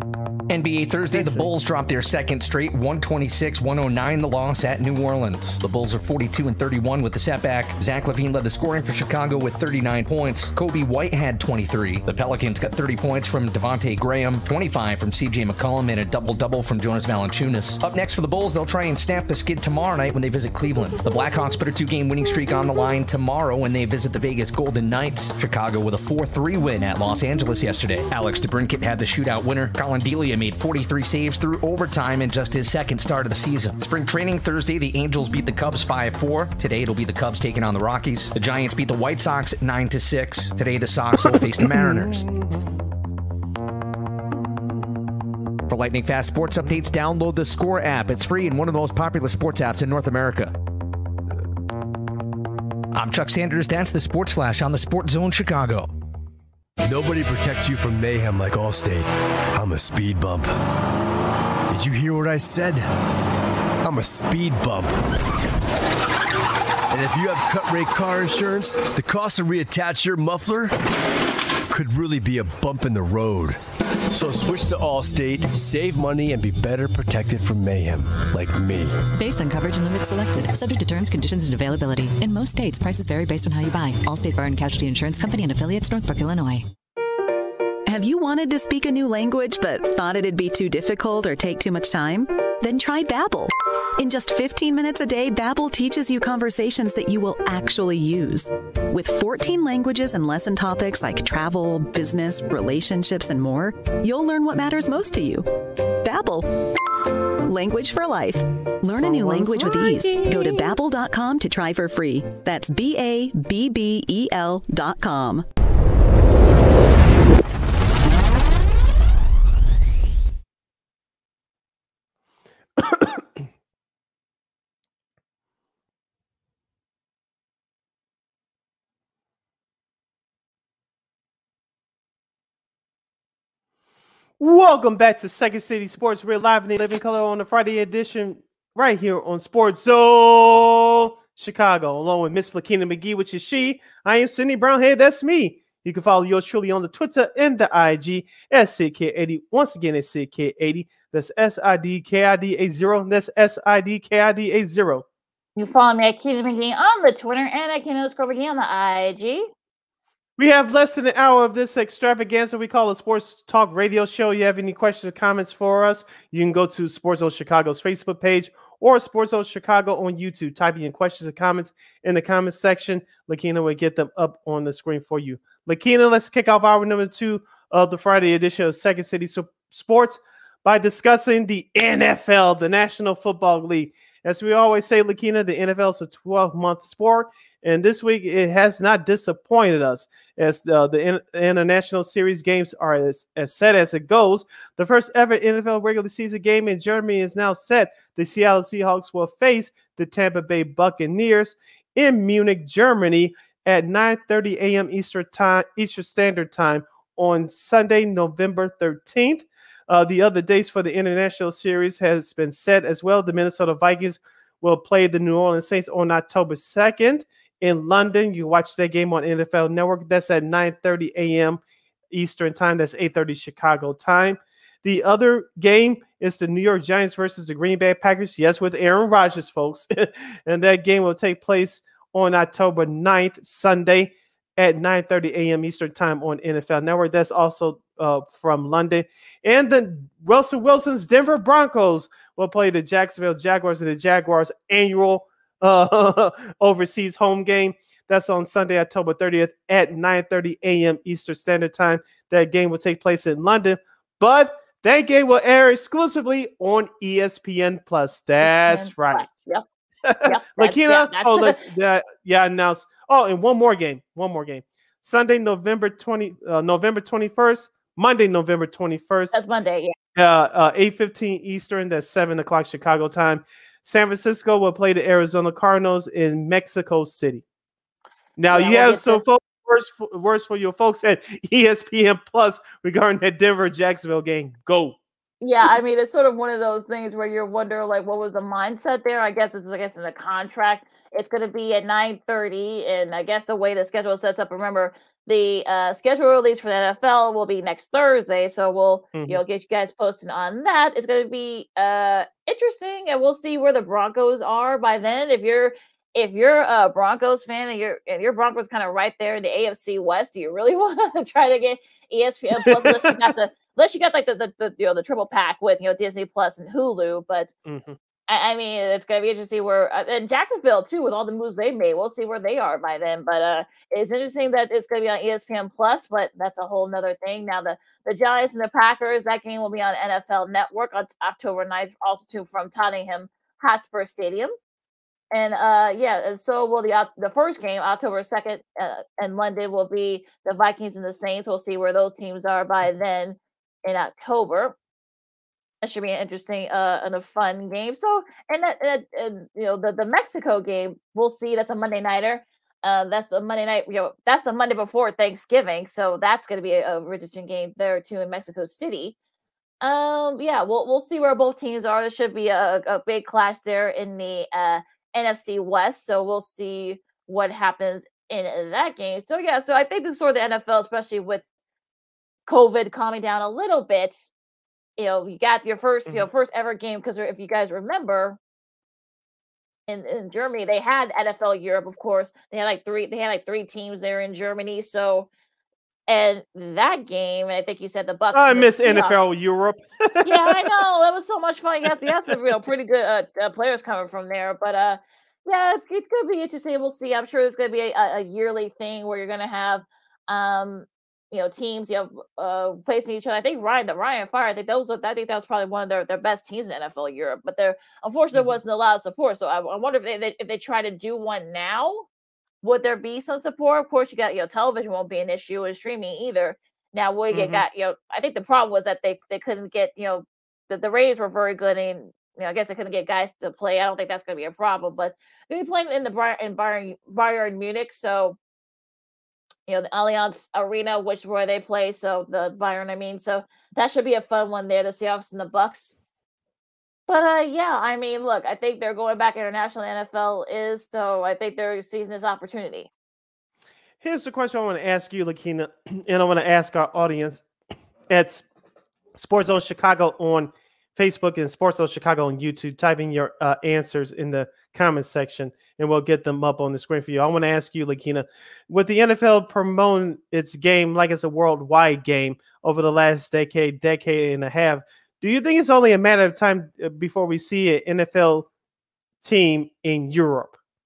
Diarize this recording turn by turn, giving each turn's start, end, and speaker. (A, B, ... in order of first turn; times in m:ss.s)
0:00.5-0:42.3 A
0:01.1-0:01.5 B
0:41.2-0:42.7 B
0:45.7-0:50.5 A
0:52.9-0:55.9 A
0:56.8-1:00.5 C
1:01.7-1:02.9 C
1:03.8-1:05.1 C
1:06.9-1:10.9 C
1:11.7-1:19.1 C
1:19.1-1:26.6 D
1:27.8-1:46.5 E
1:47.4-1:55.4 E
1:49.2-1:50.6 B
2:02.8-2:03.2 B
2:14.4-2:35.0 B
2:35.6-2:39.5 F
2:40.4-4:19.3 B
4:18.4-4:19.6 F
4:20.0-4:29.3 B
4:20.2-4:21.6 F
4:29.3-4:29.9 F
4:30.1-4:37.4 B
4:38.4-4:45.0 B
4:38.5-4:39.2 F
4:45.4-5:17.5 F
4:59.1-4:59.4 B
5:12.6-5:13.3 B
5:17.6-5:18.0 B
5:18.3-5:34.5 F
5:35.3-5:44.8 F
5:45.8-5:59.1 F
5:59.8-6:11.4 F
6:12.4-6:14.3 F
6:15.0-6:18.4 F
6:19.9-6:25.3 F
6:26.1-6:29.2 F
6:28.3-6:30.6 B
6:30.2-6:52.1 F
6:31.8-6:32.4 B
6:52.6-7:08.4 F
6:57.3-6:57.6 B
7:09.7-7:16.0 F
7:17.1-7:22.9 F
7:24.0-7:27.4 B
7:28.1-7:28.4 B
7:29.2-7:48.5 B
7:49.2-7:50.5 B